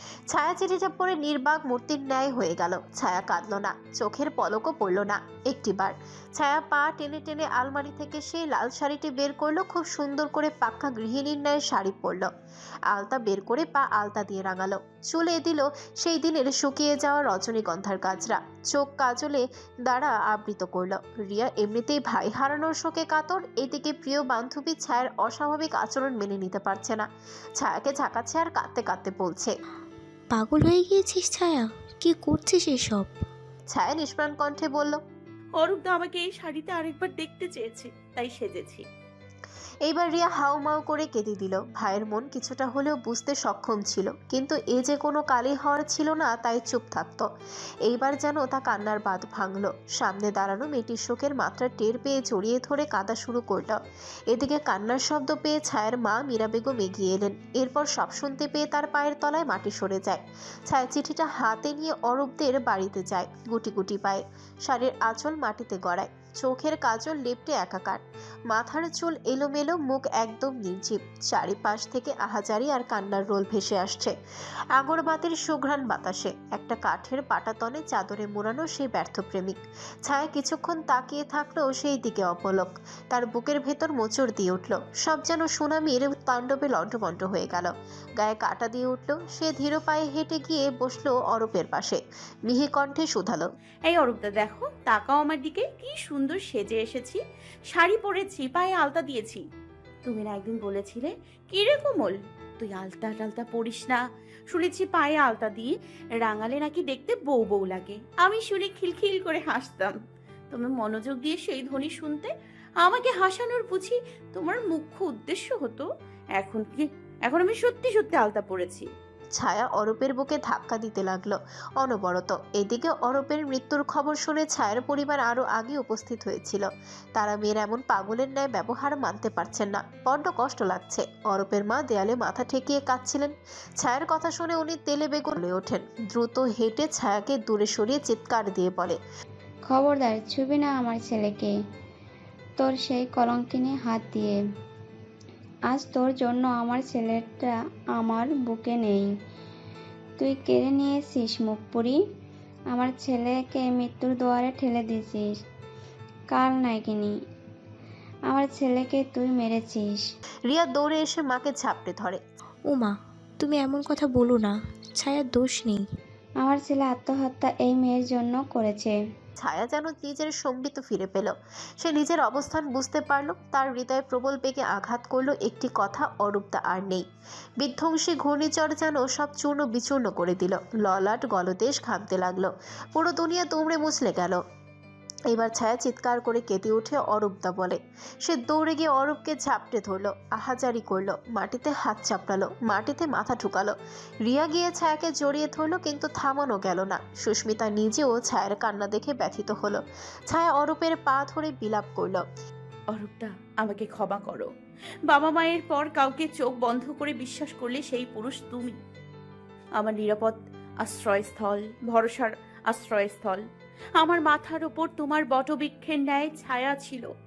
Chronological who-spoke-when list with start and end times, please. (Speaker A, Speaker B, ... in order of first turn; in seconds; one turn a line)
Speaker A: 0.3-12.3
Speaker A: 12.9-27.0
Speaker A: 27.6-29.5
Speaker B: 30.3-33.1
Speaker A: 33.7-35.0
Speaker C: 35.6-38.9
Speaker A: 39.9-47.3
Speaker A: 47.8-53.8
Speaker A: 54.3-74.1
Speaker A: 74.8-93.5
Speaker C: 93.9-97.2
Speaker C: 97.7-99.4
Speaker C: 100.0-110.0
Speaker C: 110.5-118.9
Speaker A: 119.3-139.0
Speaker D: 139.7-141.5
Speaker D: 142.6-144.4
Speaker D: 145.7-149.1
Speaker D: 150.2-152.0
Speaker D: 152.7-155.3
Speaker D: 156.3-157.2
Speaker D: 158.3-160.0
Speaker A: 160.5-162.2
Speaker B: 162.7-165.8
Speaker D: 166.4-169.0
Speaker A: 169.4-177.1
Speaker A: 177.6-184.4
Speaker A: 185.3-202.2
Speaker C: 202.9-204.5
Speaker C: 205.1-208.8
Speaker C: 209.8-213.4
Speaker C: 213.9-217.1